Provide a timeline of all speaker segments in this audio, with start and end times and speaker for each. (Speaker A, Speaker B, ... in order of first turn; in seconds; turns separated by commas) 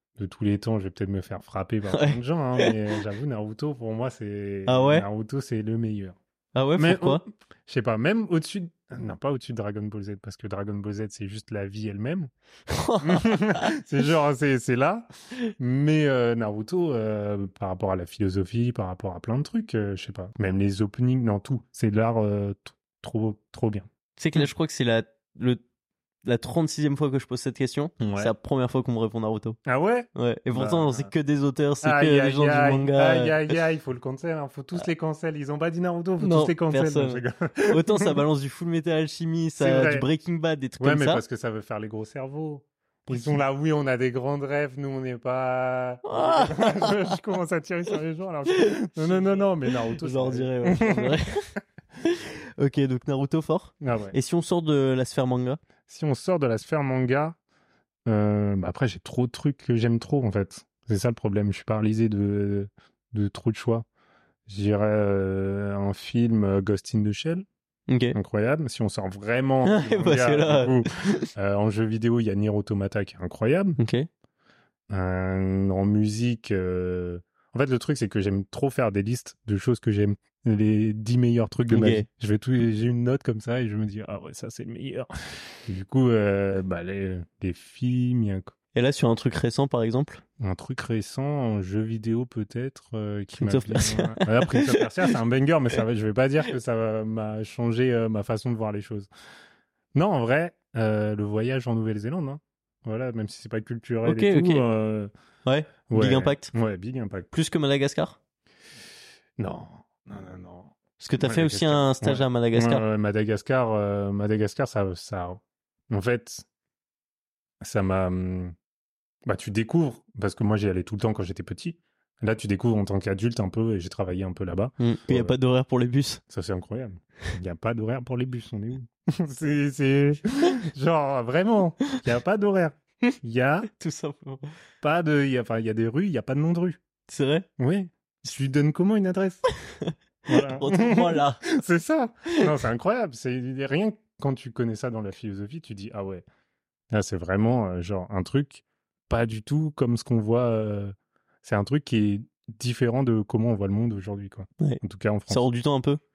Speaker A: 0.2-6.2, Speaker B: 1.9-2.7, Speaker B: 4.7-5.0, Speaker B: 6.5-7.2, Speaker A: 6.8-12.3, Speaker B: 12.7-13.7, Speaker A: 13.0-24.5, Speaker B: 24.2-25.6, Speaker B: 26.2-29.6, Speaker A: 28.0-28.3, Speaker A: 29.6-31.1, Speaker B: 30.1-33.5, Speaker A: 31.8-38.0, Speaker B: 36.2-41.2, Speaker A: 39.6-40.1, Speaker A: 40.8-51.2, Speaker B: 43.1-43.4, Speaker B: 46.1-47.2, Speaker B: 48.7-51.3, Speaker B: 52.0-55.6, Speaker A: 53.8-54.1, Speaker A: 55.9-57.4, Speaker A: 58.1-63.9, Speaker A: 64.5-67.4, Speaker B: 67.9-68.2, Speaker A: 68.1-73.8, Speaker B: 69.6-71.2, Speaker B: 73.8-74.1, Speaker A: 74.9-85.1, Speaker B: 81.7-82.0, Speaker A: 85.7-88.5, Speaker B: 88.7-90.2, Speaker A: 90.4-99.1, Speaker B: 93.4-94.6, Speaker A: 99.9-105.1, Speaker B: 104.0-104.6, Speaker B: 105.5-106.5, Speaker A: 105.9-107.3, Speaker B: 107.3-108.2, Speaker A: 109.4-116.5, Speaker B: 111.0-112.8, Speaker A: 117.6-118.5, Speaker A: 119.3-125.4, Speaker B: 124.8-126.2, Speaker A: 126.3-133.7, Speaker B: 133.8-134.4, Speaker A: 134.8-136.8, Speaker B: 137.1-137.4, Speaker A: 137.6-139.4, Speaker B: 139.9-141.4, Speaker A: 140.3-146.2, Speaker A: 146.9-155.5, Speaker B: 154.6-156.0